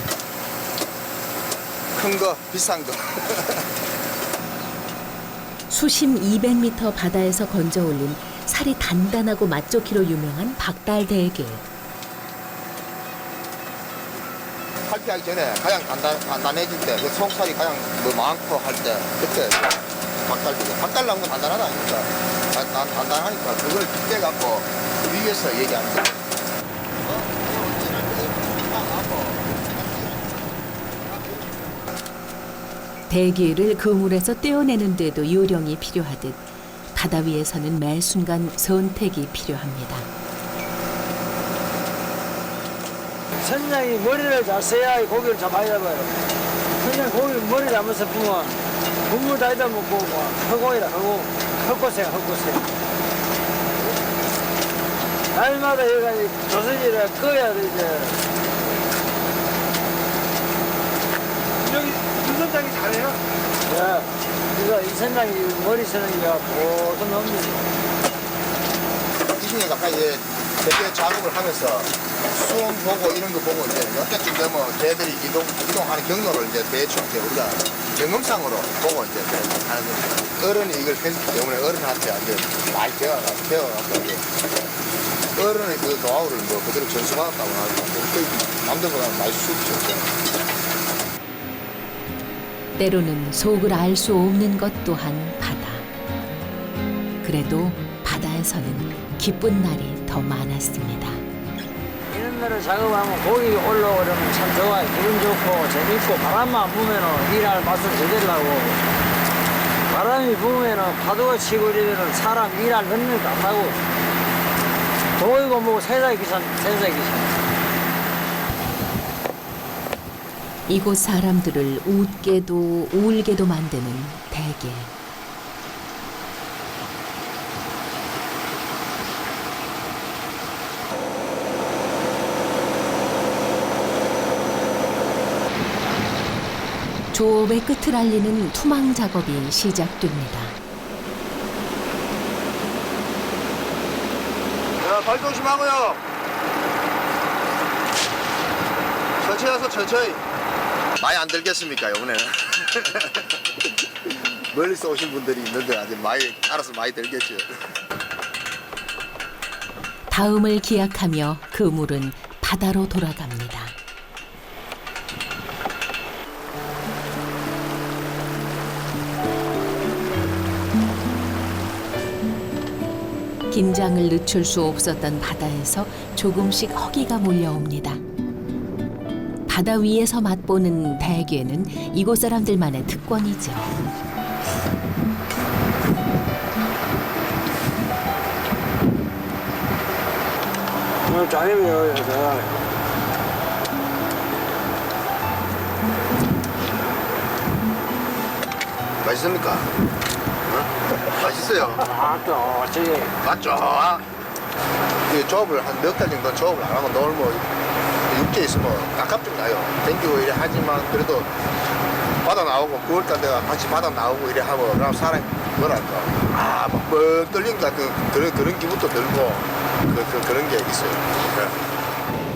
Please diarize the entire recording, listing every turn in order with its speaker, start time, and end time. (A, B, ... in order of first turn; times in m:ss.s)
0:01.9-0:03.6 A
0:05.7-0:11.6 B
0:14.9-0:26.2 A
0:27.0-0:30.5 A
0:31.0-0:31.7 A
0:33.1-0:36.4 B
0:36.9-0:40.1 B
0:43.4-0:46.2 C
0:46.8-0:52.7 C
0:55.3-0:58.2 C
1:01.6-1:07.6 C
1:09.4-1:24.2 A
1:25.4-1:30.1 A
1:32.8-1:35.8 B
1:37.2-1:41.2 B
1:42.1-1:48.8 C
1:49.9-1:53.8 C
1:55.2-1:57.3 C
2:00.7-2:04.9 B
2:17.1-2:20.6 B
2:24.8-2:26.0 A
2:29.2-2:30.2 A
2:31.0-2:33.3 A
2:34.0-2:37.5 A
2:40.1-2:43.8 B
2:53.5-2:58.0 B
2:59.5-3:03.7 B
3:11.0-3:12.6 C
3:19.0-3:19.7 A
3:20.5-3:21.8 A
3:21.8-3:23.1 C
3:23.2-3:24.1 A
3:25.0-3:27.5 A
3:28.1-3:31.3 A
3:32.2-3:41.6 A